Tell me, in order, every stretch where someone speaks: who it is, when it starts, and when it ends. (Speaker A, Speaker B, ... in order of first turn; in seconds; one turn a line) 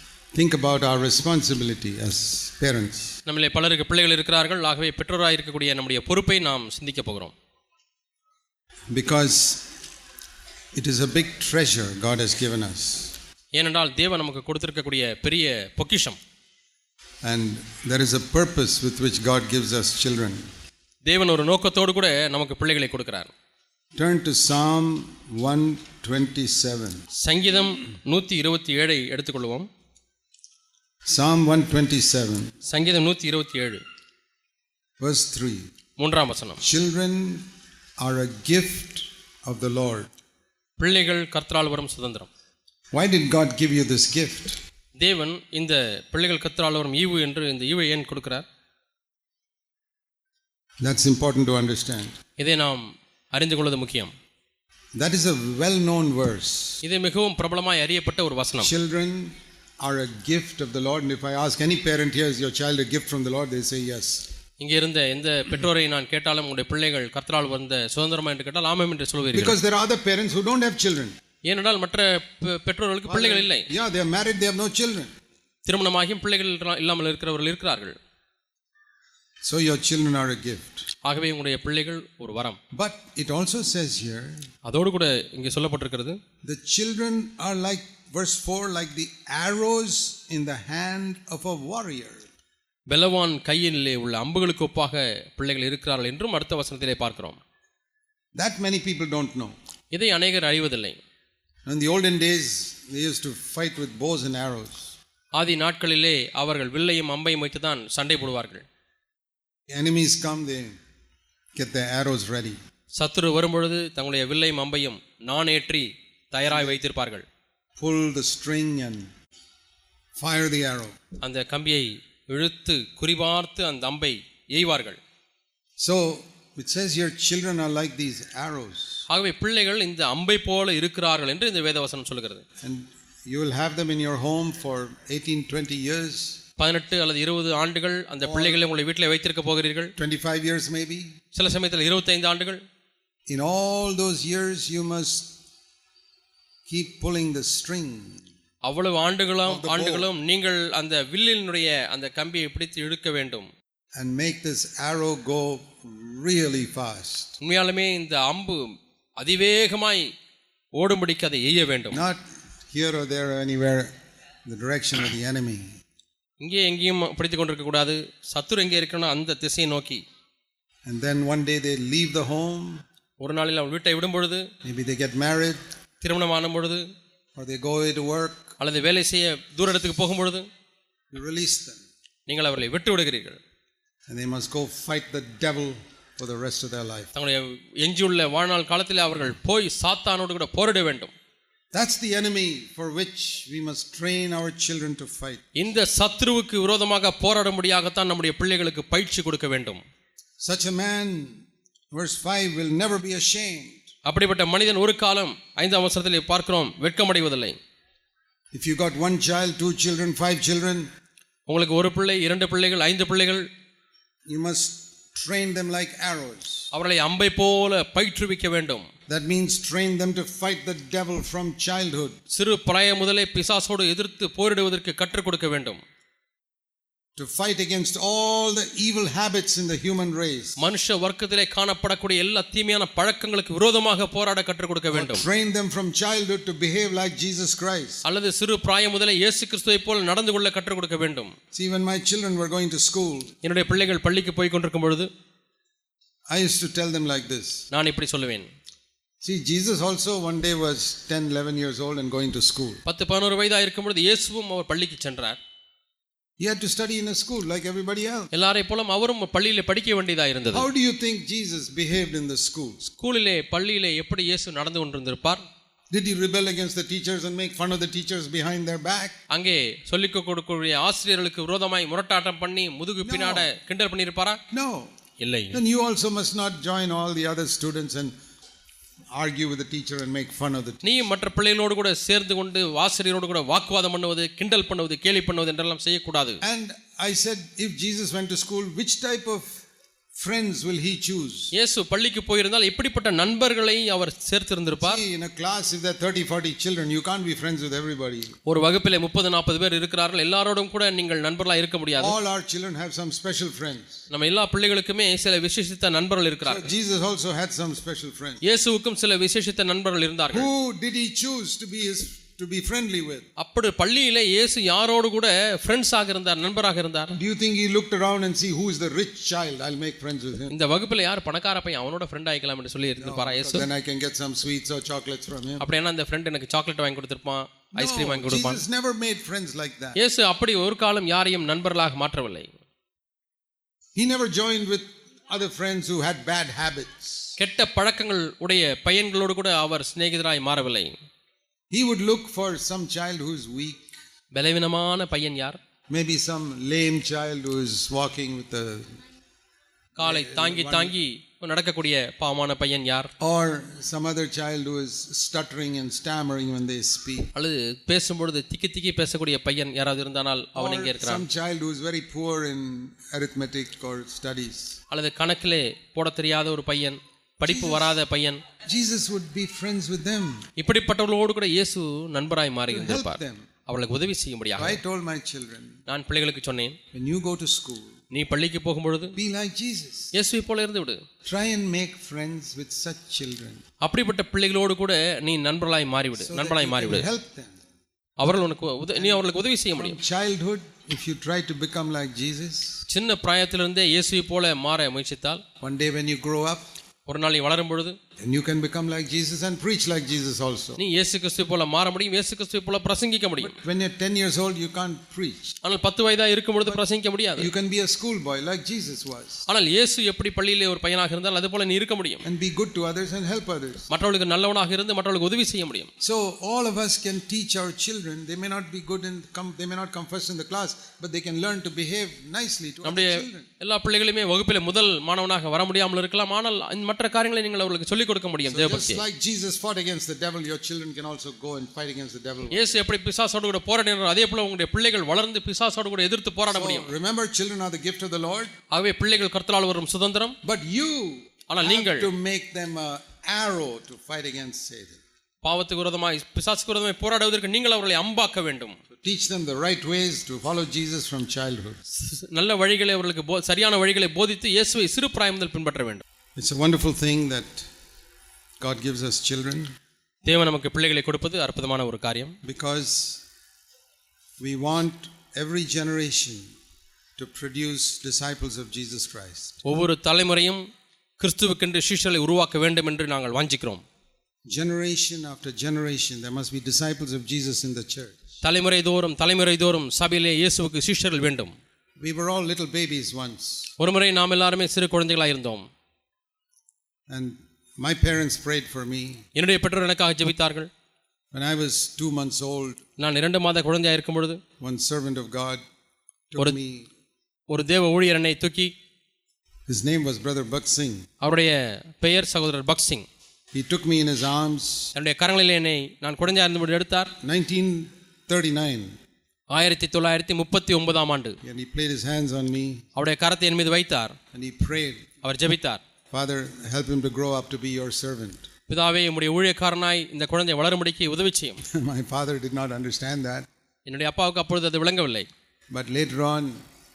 Speaker A: 0.3-3.1
Speaker B: 3.3-7.3
Speaker A: 8.9-9.7
Speaker A: 10.8-13.2
Speaker B: 13.5-16.2
Speaker A: 17.2-20.5
Speaker B: 21.1-23.3
Speaker A: 24.0-27.0
Speaker B: 27.2-29.7
Speaker A: 31.1-32.5
Speaker B: 32.7-33.8
Speaker A: 35.0-35.7
Speaker B: 36.0-36.6
Speaker A: 36.6-37.5
Speaker A: 38.0-40.1
Speaker B: 40.8-42.3
Speaker A: 42.9-44.6
Speaker B: 45.0-48.5
Speaker A: 50.8-52.1
Speaker B: 52.4-54.1
Speaker A: 55.0-56.8
Speaker B: 56.8-58.7
Speaker A: 58.6-64.2
Speaker B: 64.6-69.6
Speaker A: 69.3-71.2
Speaker B: 71.4-73.7
Speaker A: 73.1-75.1
Speaker B: 75.7-78.0
Speaker A: 79.5-80.8
Speaker B: 81.0-82.6
Speaker A: 82.7-84.4
Speaker B: 84.7-86.2
Speaker A: 86.4-92.3
Speaker B: 92.9-97.4
Speaker A: 98.3-99.5
Speaker B: 99.9-101.0
Speaker A: 101.7-104.9
Speaker B: 105.3-108.7
Speaker A: 109.7-110.8
Speaker A: 111.5-112.6
Speaker B: 113.0-117.2
Speaker A: 116.4-116.8
Speaker A: 117.8-119.1
Speaker A: 120.2-121.0
Speaker B: 121.2-125.0
Speaker A: 125.8-129.1
Speaker B: 129.1-132.4
Speaker A: 132.6-136.4
Speaker B: 136.6-139.9
Speaker A: 138.2-138.6
Speaker A: 140.0-141.1
Speaker B: 141.3-142.6
Speaker A: 143.3-145.3
Speaker A: 146.7-148.2
Speaker B: 148.6-153.5
Speaker A: 149.4-150.1
Speaker A: 153.9-157.4
Speaker B: 157.4-160.1
Speaker B: 160.8-162.0
Speaker A: 161.9-163.9
Speaker A: 164.5-165.7
Speaker B: 166.4-170.0
Speaker A: 170.9-172.8
Speaker B: 173.2-174.5
Speaker A: 174.6-175.6
Speaker B: 176.0-176.8
Speaker A: 177.4-178.5
Speaker B: 178.6-180.5
Speaker A: 181.1-181.9
Speaker B: 182.3-183.4
Speaker A: 184.1-187.1
Speaker B: 187.2-191.1
Speaker A: 191.7-195.4
Speaker B: 195.6-199.8
Speaker A: 200.4-203.9
Speaker B: 204.1-207.6
Speaker A: 208.5-210.9
Speaker B: 211.5-213.5
Speaker A: 214.3-216.7
Speaker B: 216.7-218.9
Speaker A: 219.1-222.2
Speaker B: 222.3-225.8
Speaker A: 227.2-230.6
Speaker B: 230.6-235.2
Speaker A: 234.9-238.0
Speaker B: 238.1-241.3
Speaker A: 241.5-243.3
Speaker B: 243.4-245.1
Speaker A: 246.3-247.7
Speaker B: 247.7-248.5
Speaker A: 249.2-252.8
Speaker B: 252.9-255.4
Speaker A: 256.4-258.3
Speaker B: 258.3-260.7
Speaker A: 260.5-262.8
Speaker B: 262.9-265.4
Speaker A: 265.9-269.2
Speaker B: 269.3-274.4
Speaker A: 273.0-273.5
Speaker A: 274.5-274.9
Speaker B: 275.2-275.6
Speaker A: 275.5-278.1
Speaker A: 279.1-280.9
Speaker B: 280.8-286.4
Speaker A: 286.4-291.5
Speaker B: 291.5-295.0
Speaker A: 294.8-298.4
Speaker B: 298.5-302.2
Speaker A: 302.0-304.0
Speaker B: 304.1-306.7
Speaker A: 306.4-308.4
Speaker B: 308.4-310.5
Speaker A: 310.3-313.3
Speaker B: 313.4-317.2
Speaker A: 317.1-320.6
Speaker B: 320.5-323.7
Speaker A: 323.0-325.6
Speaker B: 325.6-328.6
Speaker A: 327.8-330.0
Speaker B: 330.0-332.5
Speaker A: 334.0-337.4
Speaker B: 337.4-341.0
Speaker A: 341.7-343.9
Speaker B: 344.3-345.6
Speaker A: 345.9-349.0
Speaker B: 350.0-353.1
Speaker A: 350.0-350.9
Speaker A: 353.2-357.3
Speaker B: 357.4-361.3
Speaker A: 360.6-364.8
Speaker B: 364.9-368.4
Speaker A: 367.4-368.0
Speaker A: 368.7-370.4
Speaker B: 370.6-374.8
Speaker A: 372.7-373.5
Speaker A: 374.6-375.8
Speaker B: 375.9-376.8
Speaker A: 376.9-377.9
Speaker B: 378.1-379.1
Speaker A: 379.1-380.1
Speaker B: 380.1-381.0
Speaker A: 381.2-383.6
Speaker B: 383.8-387.1
Speaker A: 386.2-387.6
Speaker B: 388.2-390.0
Speaker A: 389.0-392.8
Speaker B: 392.9-395.4
Speaker A: 395.6-396.7
Speaker B: 397.1-398.0
Speaker A: 398.2-400.8
Speaker B: 400.8-403.6
Speaker A: 403.4-405.6
Speaker B: 405.6-407.5
Speaker A: 407.4-409.5
Speaker B: 409.5-412.2
Speaker A: 412.2-413.9
Speaker B: 413.9-415.9
Speaker A: 416.0-423.5
Speaker B: 422.8-429.0
Speaker A: 428.5-432.7
Speaker B: 432.5-436.9
Speaker A: 436.5-438.5
Speaker B: 438.7-440.4
Speaker A: 440.4-445.0
Speaker B: 441.5-442.1
Speaker B: 445.4-448.8
Speaker A: 449.0-451.8
Speaker B: 451.9-456.0
Speaker A: 456.4-457.7
Speaker A: 458.6-459.7
Speaker B: 460.2-462.4
Speaker A: 462.4-463.2
Speaker A: 464.4-466.5
Speaker A: 467.2-469.6
Speaker B: 469.6-470.6
Speaker B: 471.2-473.8
Speaker A: 474.5-478.2
Speaker B: 478.4-481.6
Speaker A: 482.0-483.7
Speaker B: 483.8-485.7
Speaker A: 487.1-489.2
Speaker B: 489.4-490.7
Speaker A: 491.3-492.8
Speaker B: 493.0-494.4
Speaker A: 494.6-495.6
Speaker A: 496.3-496.9
Speaker B: 497.5-498.7
Speaker A: 499.7-501.1
Speaker B: 501.2-503.1
Speaker A: 503.5-504.9
Speaker B: 504.9-507.1
Speaker A: 507.2-508.9
Speaker B: 509.5-511.4
Speaker A: 511.4-512.8
Speaker B: 513.0-514.2
Speaker A: 514.3-515.1
Speaker B: 515.2-515.8
Speaker A: 516.1-518.5
Speaker B: 518.7-521.6
Speaker A: 521.6-523.5
Speaker B: 523.9-525.3
Speaker A: 525.7-526.6